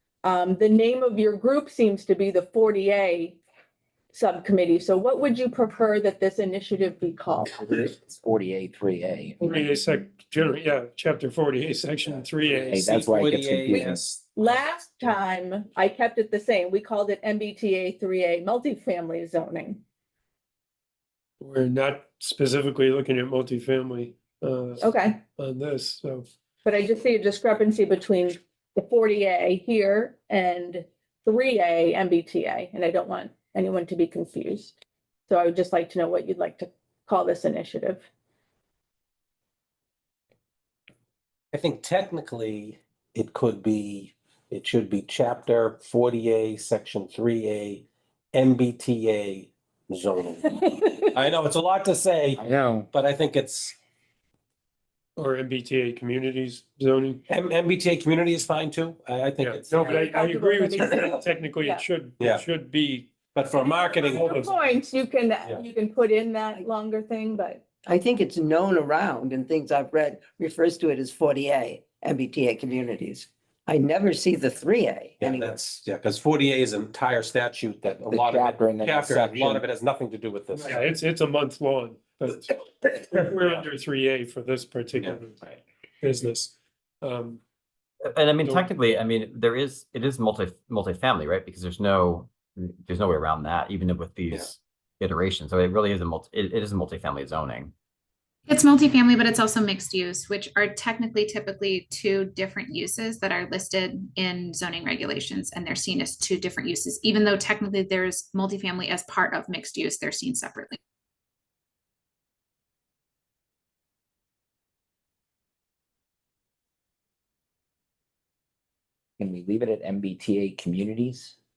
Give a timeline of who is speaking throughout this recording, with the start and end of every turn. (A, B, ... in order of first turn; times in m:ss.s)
0:00.2-0:03.4 A
0:04.1-0:07.8 A
0:07.7-0:09.6 B
0:09.4-0:12.9 C
0:12.5-0:14.0 B
0:12.7-0:14.3 D
0:14.4-0:19.8 A
0:21.4-0:26.3 C
0:24.8-0:25.2 A
0:26.6-0:34.7 A
0:35.3-0:38.0 A
0:41.5-0:52.4 D
0:52.4-0:52.9 B
0:52.9-0:53.8 D
0:55.2-0:57.2 C
0:57.3-1:00.1 D
0:59.4-1:03.1 C
0:59.8-1:01.8 A
1:02.2-1:02.5 D
1:03.3-1:04.4 D
1:04.0-1:07.6 A
1:04.0-1:04.5 C
1:07.9-1:15.6 E
1:15.2-1:20.8 D
1:18.0-1:19.6 B
1:20.5-1:25.4 C
1:26.0-1:27.4 C
1:28.0-1:37.7 F
1:38.5-1:50.8 G
1:59.2-2:01.3 B